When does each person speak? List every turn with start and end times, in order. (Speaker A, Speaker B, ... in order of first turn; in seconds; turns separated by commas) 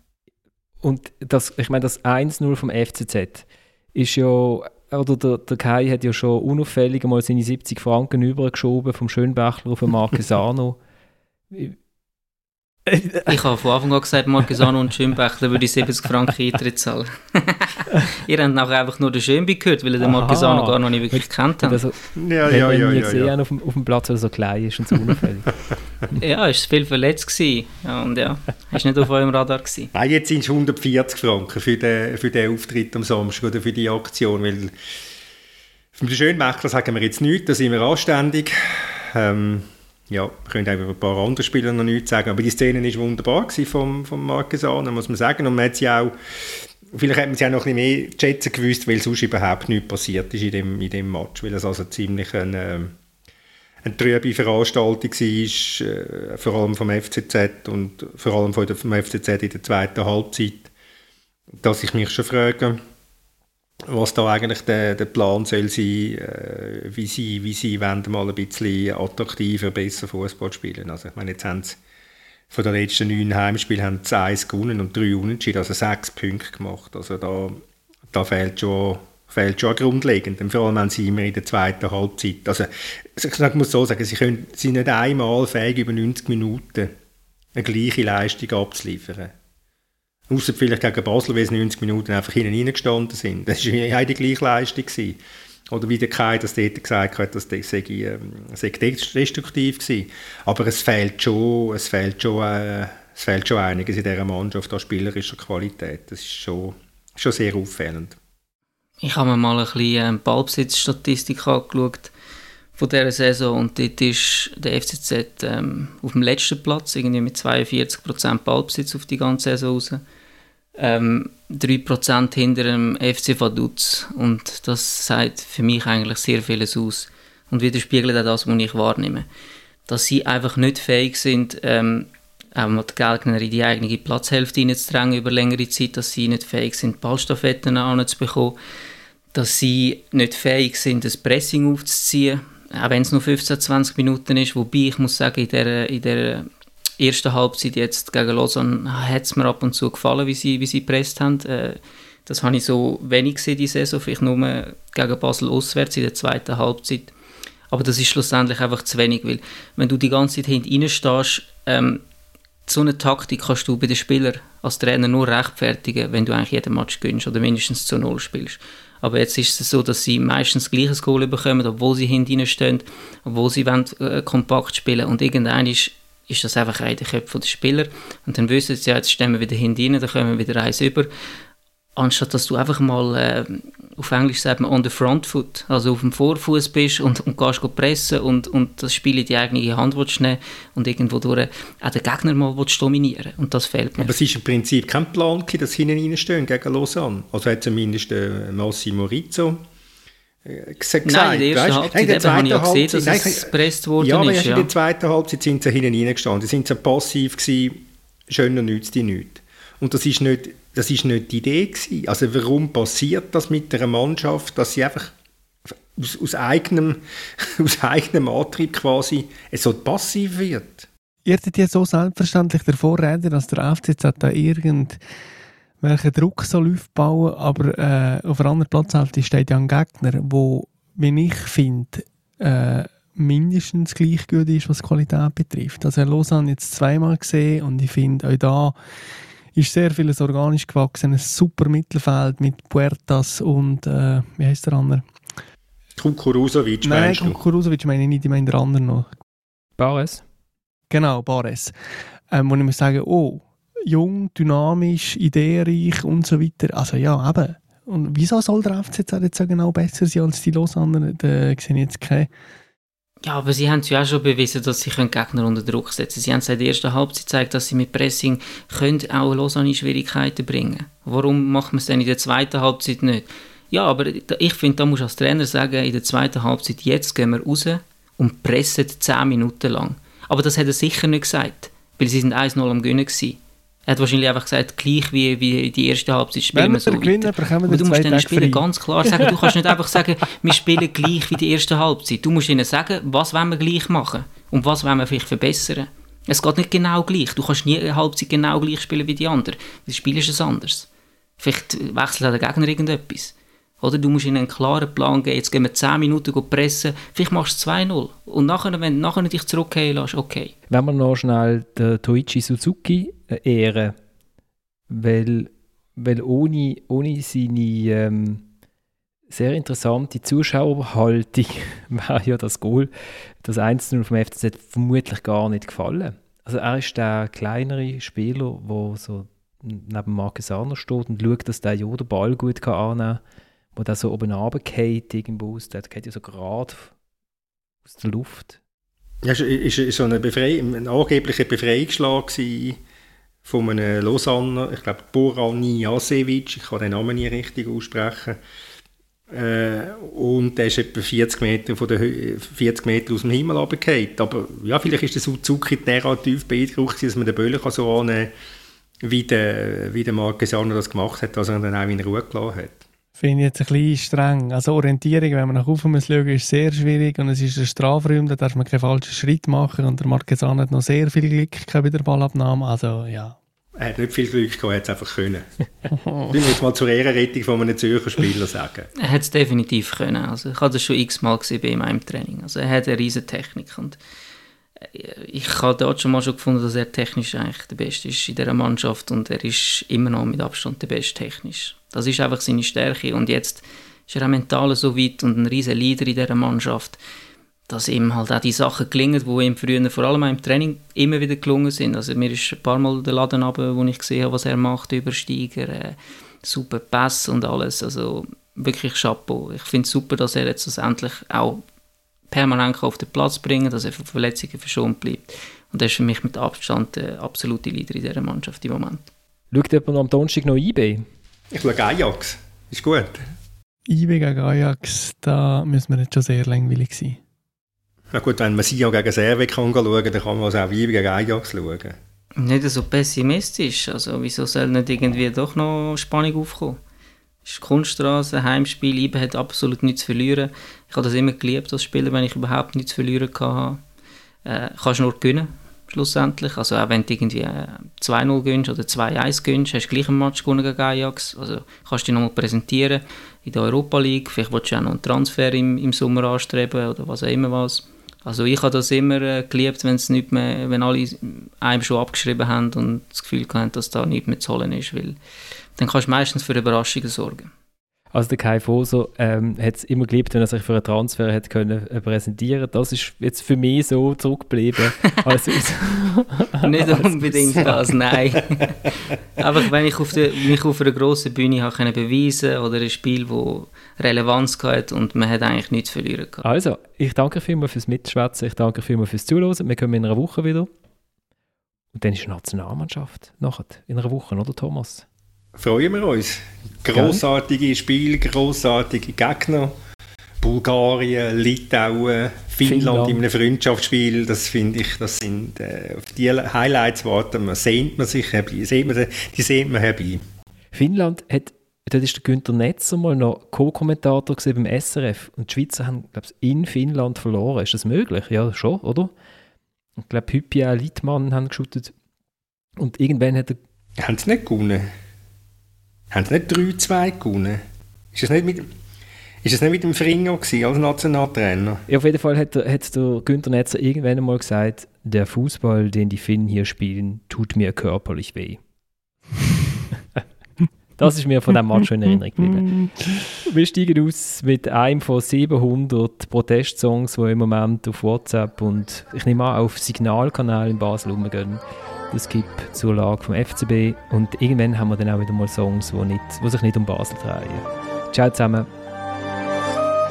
Speaker A: 0.8-10.8, Speaker A: 11.5-11.8, Speaker A: 12.9-13.4, Speaker B: 13.3-21.8, Speaker A: 20.0-25.5, Speaker C: 22.1-23.3, Speaker B: 26.2-29.9, Speaker C: 29.9-34.7, Speaker C: 36.0-46.1, Speaker C: 46.9-52.9, Speaker C: 53.8-60.7, Speaker C: 61.6-62.8, Speaker C: 63.9-71.8, Speaker C: 72.5-86.9, Speaker C: 87.5-89.3, Speaker C: 90.3-95.2, Speaker C: 95.7-108.2, Speaker B: 109.0-112.1, Speaker B: 112.8-120.0, Speaker B: 120.8-129.3, Speaker B: 129.9-138.6, Speaker B: 139.3-146.5, Speaker B: 147.0-157.1, Speaker B: 157.7-162.0, Speaker B: 162.7-181.1, Speaker B: 182.0-194.1, Speaker C: 194.0-199.6, Speaker C: 200.5-215.1, Speaker B: 201.1-204.7, Speaker C: 215.9-220.9, Speaker D: 221.3-225.0, Speaker D: 225.8-238.8, Speaker D: 239.6-245.1, Speaker C: 246.0-247.4, Speaker D: 246.8-249.1, Speaker A: 249.8-250.2, Speaker D: 250.9-251.7, Speaker D: 252.3-262.3, Speaker B: 263.2-300.9, Speaker D: 286.6-288.6, Speaker A: 289.2-289.5, Speaker B: 301.4-310.5, Speaker A: 310.7-313.9, Speaker A: 314.9-318.4, Speaker A: 319.3-322.9, Speaker A: 323.4-333.2, Speaker A: 333.8-336.9, Speaker A: 337.9-338.6, Speaker C: 339.2-342.8, Speaker C: 343.4-348.4, Speaker C: 349.3-358.3, Speaker C: 359.0-362.8, Speaker D: 363.2-373.4, Speaker C: 373.8-375.5, Speaker D: 375.9-376.3, Speaker C: 376.3-378.9, Speaker B: 379.0-384.0, Speaker B: 384.8-397.0, Speaker B: 397.7-411.6, Speaker B: 412.3-419.1, Speaker A: 419.5-421.0, Speaker C: 421.5-423.3, Speaker D: 423.9-427.2, Speaker C: 428.1-432.0, Speaker B: 432.4-436.8, Speaker B: 437.4-443.8, Speaker B: 444.4-465.2, Speaker B: 465.8-467.5, Speaker A: 468.1-477.9, Speaker B: 476.6-486.4, Speaker A: 486.4-490.7, Speaker A: 491.9-495.1, Speaker C: 495.6-499.8, Speaker A: 496.9-497.2, Speaker C: 500.4-510.2, Speaker A: 502.6-503.2, Speaker A: 510.7-519.1, Speaker A: 520.0-521.9, Speaker A: 522.8-523.6, Speaker C: 524.0-524.9, Speaker C: 526.1-527.6, Speaker C: 528.1-528.7, Speaker C: 529.4-531.9, Speaker A: 531.9-538.6, Speaker A: 541.0-542.8, Speaker D: 542.6-542.9, Speaker A: 543.4-558.7